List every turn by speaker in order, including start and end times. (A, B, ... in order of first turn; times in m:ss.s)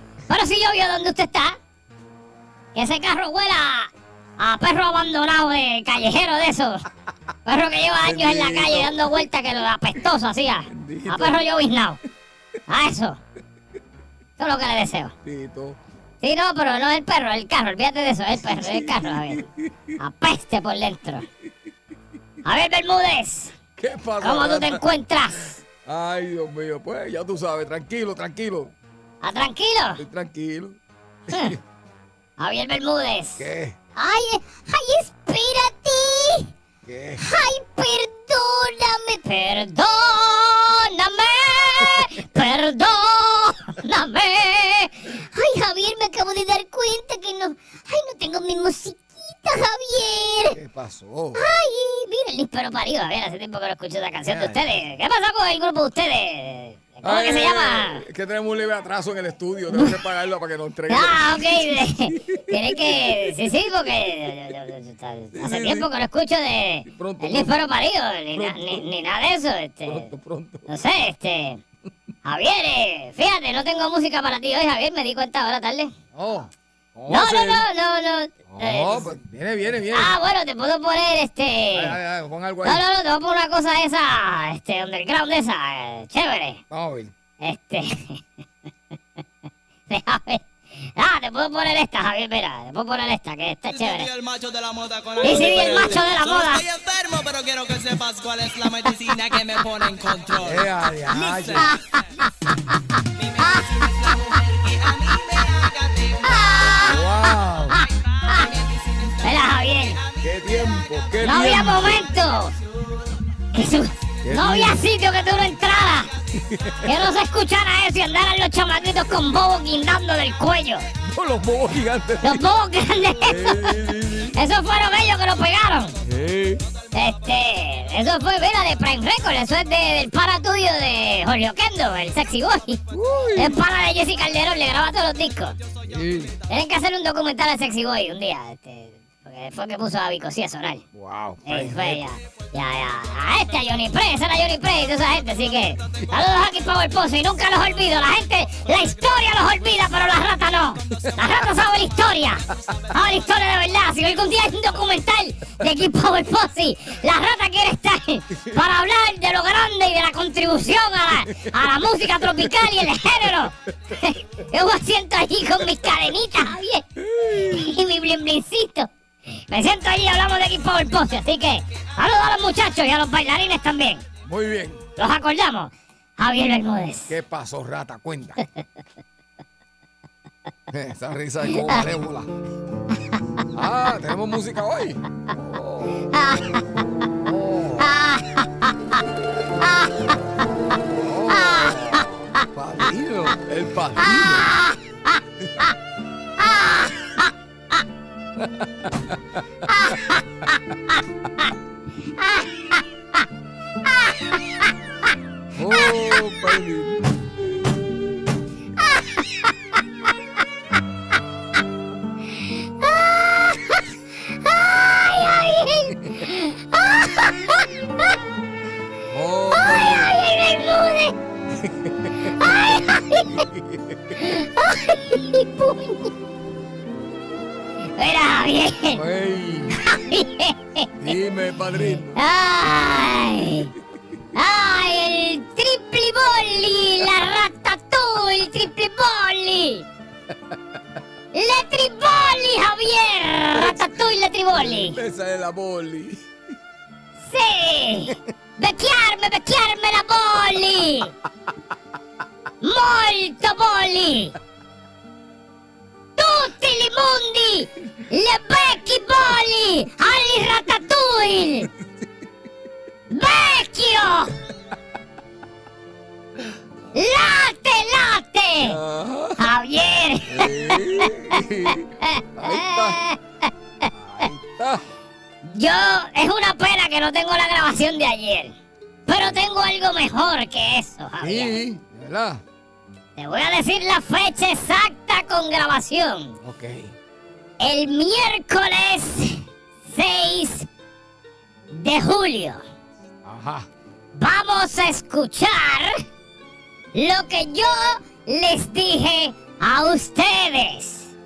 0:00.3-0:01.6 A
0:02.8-0:06.8 A
0:07.5-0:12.0 A
0:08.0-0:09.0 B
0:10.7-0:11.5 B
0:12.7-0:13.2 A
0:14.4-0:15.1 A
0:15.2-0:15.8 B
0:16.2-0:19.4 A
0:18.4-0:19.7 B
0:20.0-0:21.3 A
0:22.4-0:23.5 A
0:23.8-0:24.8 B
0:24.2-0:25.6 A
0:25.8-0:28.7 B
0:29.2-0:30.0 A
0:30.0-0:30.8 B
0:31.3-0:31.6 A
0:31.3-0:31.6 B
0:32.4-0:36.5 A
0:33.4-0:33.8 B
0:36.8-0:37.2 B
0:37.2-0:50.6 A
0:50.5-0:51.4 B
0:51.4-0:58.0 A
0:54.2-0:54.6 B
0:57.0-1:03.2 B
1:00.9-1:10.1 A
1:05.3-1:05.9 B
1:06.9-1:07.6 B
1:08.3-1:08.9 B
1:09.9-1:10.7 B
1:10.7-1:11.6 A
1:12.2-1:15.9 A
1:16.1-1:17.6 B
1:17.1-1:19.2 A
1:18.5-1:20.2 B
1:19.9-1:22.0 A
1:21.7-1:22.8 B
1:22.6-1:26.6 A
1:26.7-1:27.1 B
1:27.4-1:28.2 A
1:29.9-1:34.1 A
1:33.7-1:41.7 C
1:35.2-1:36.6 A
1:40.4-1:41.7 B
1:41.6-1:42.2 A
1:43.2-1:46.8 C
1:43.4-1:43.7 A
1:46.2-1:48.5 A
1:46.8-1:47.8 B
1:48.3-1:49.2 C
1:49.2-1:50.0 A
1:50.2-1:52.0 B
1:50.4-1:52.1 C
1:51.2-1:52.5 A
1:53.5-1:56.1 A
1:54.2-1:54.8 B
1:56.4-1:56.8 B
1:56.8-2:00.8 A
2:01.0-2:02.5 B
2:02.2-2:06.0 A
2:03.2-2:04.4 B
2:06.0-2:06.6 B
2:06.9-2:12.8 A
2:12.9-2:13.6 B
2:13.4-2:15.6 A
2:15.8-2:16.4 B
2:16.5-2:20.8 A
2:20.9-2:22.1 B
2:21.4-2:46.8 A
2:47.0-2:47.7 B
2:47.4-2:48.9 A
2:49.5-2:54.0 A
2:54.2-2:54.8 B
2:55.0-2:57.1 A
2:57.1-2:58.4 B
3:00.7-3:02.3 B
3:01.5-3:01.8 A
3:03.5-3:06.1 B
3:06.1-3:06.6 A
3:07.2-3:07.9 B
3:07.8-3:09.0 A
3:09.6-3:10.2 A
3:10.8-3:14.5 B
3:11.3-3:12.4 A
3:14.0-3:15.7 A
3:16.4-3:17.3 A
3:18.4-3:20.0 B
3:19.7-3:20.2 A
3:20.9-3:21.5 A
3:22.2-3:23.2 A
3:23.8-3:24.7 A
3:25.6-3:28.1 B
3:28.8-3:29.5 A
3:32.4-3:38.2 A
3:39.1-3:40.1 B
3:39.5-3:41.2 A
3:41.6-3:42.3 B
3:42.3-3:43.4 A
3:43.4-3:44.2 B
3:44.2-3:46.1 A
3:48.0-3:49.0 A
3:49.0-3:49.8 B
3:49.8-3:50.9 A
3:51.0-3:52.2 B
3:52.2-3:53.7 A
3:54.3-3:59.9 A
4:01.3-4:05.0 A
4:03.5-4:04.0 B
4:04.5-4:06.2 B
4:07.2-4:11.1 A
4:12.6-4:14.3 A
4:16.2-4:21.7 A
4:23.1-4:24.4 A
4:26.9-4:28.8 A
4:28.6-4:29.4 B
4:29.4-4:31.4 A
4:30.3-4:33.0 B
4:32.0-4:34.3 A
4:33.9-4:34.8 B
4:35.4-4:38.6 A
4:39.1-4:41.6 A
4:39.1-4:39.4 B
4:41.2-4:42.4 B
4:43.2-4:46.4 A
4:46.4-4:46.9 B
4:47.6-4:50.7 A
4:51.7-4:52.6 A
4:53.2-4:53.7 B
4:54.2-4:56.0 A
4:56.9-5:01.1 A